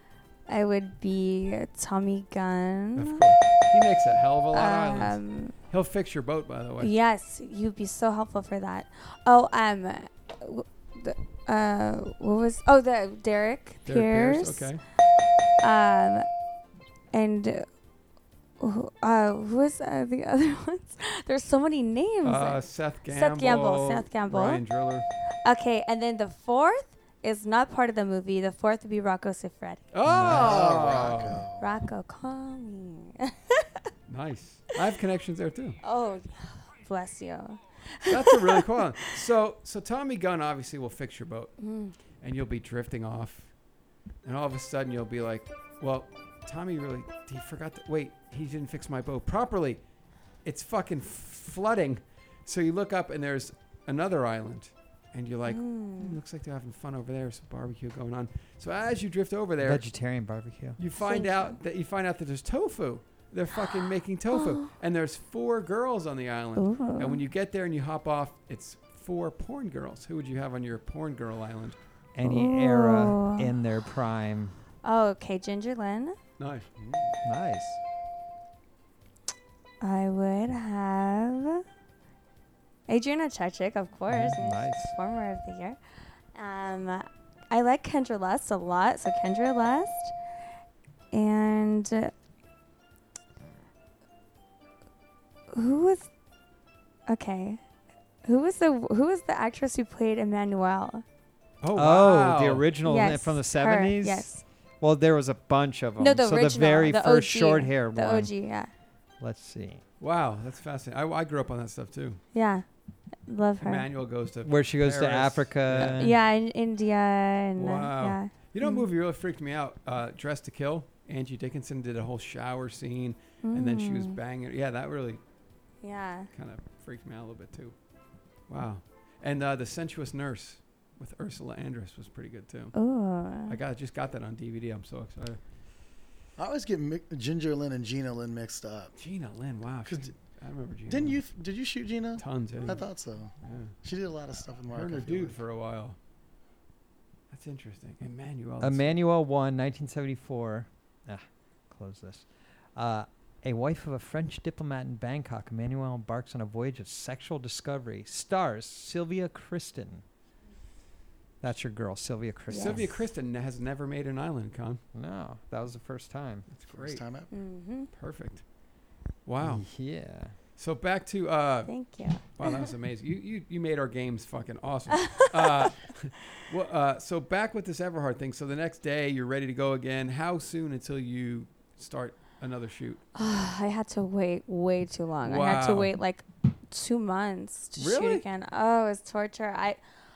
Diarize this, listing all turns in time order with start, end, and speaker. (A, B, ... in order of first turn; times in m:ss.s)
0:00.5-0:03.2 A
0:03.0-0:05.2 B
0:04.5-0:05.5 A
0:05.7-0:06.9 B
0:06.8-0:14.7 A
0:13.8-0:14.8 B
0:15.6-0:16.2 A
0:17.1-0:17.6 A
0:18.6-0:24.6 A
0:22.2-0:25.1 B
0:25.4-0:29.8 A
0:29.9-0:31.4 B
0:30.0-0:30.7 C
0:30.1-0:31.6 D
0:31.6-0:33.7 A
0:34.1-0:35.8 B
0:35.8-0:39.1 A
0:38.1-0:41.6 B
0:41.6-0:41.9 A
0:42.2-0:43.5 B
0:44.2-0:49.8 B
0:50.4-0:59.8 B
0:55.5-0:56.2 A
0:59.6-1:00.8 C
1:00.8-1:11.8 B
1:01.0-1:01.6 A
1:04.3-1:04.7 A
1:06.6-1:07.2 A
1:12.1-1:14.6 C
1:12.2-1:13.5 A
1:14.8-1:16.2 A
1:16.4-1:17.1 B
1:17.2-1:17.8 C
1:19.8-1:21.6 A
1:22.9-1:25.8 A
1:24.1-1:24.9 C
1:26.3-1:30.1 A
1:31.1-1:32.1 A
1:35.5-1:36.1 A
1:37.1-1:37.6 A
1:38.2-1:41.0 A
1:41.6-1:42.6 B
1:41.7-1:44.3 C
1:42.8-1:44.4 A
1:44.8-1:48.3 C
1:46.0-1:48.7 A
1:49.2-1:49.8 C
1:50.0-1:52.2 B
1:52.3-1:52.6 A
1:53.3-1:53.8 A
1:53.6-1:56.2 B
1:54.4-1:56.1 C
1:55.8-1:58.8 A
1:57.6-2:05.2 B
2:03.4-2:04.2 A
2:05.8-2:06.3 A
2:06.3-2:07.7 B
2:08.5-2:12.7 B
2:12.7-2:13.6 A
2:13.5-2:15.4 B
2:16.4-2:18.9 D
2:19.0-2:21.2 B
2:19.8-2:20.1 D
2:20.9-2:25.4 D
2:22.2-2:22.8 B
2:23.4-2:23.7 B
2:24.7-2:26.0 B
2:27.3-2:29.0 B
2:28.6-2:40.0 C
2:41.4-2:42.9 C
2:42.5-2:42.8 A
2:42.6-2:44.8 B
2:44.9-2:46.5 C
2:46.5-2:47.0 B
2:46.7-2:47.3 D
2:47.3-2:47.9 A
2:47.9-2:48.4 B
2:49.2-2:49.6 B
2:49.4-2:50.3 C
2:50.6-2:51.7 B
2:51.7-2:52.6 A
2:52.4-3:03.0 B
2:54.9-2:55.6 A
3:03.2-3:09.8 A
3:05.2-3:05.9 B
3:07.8-3:08.2 B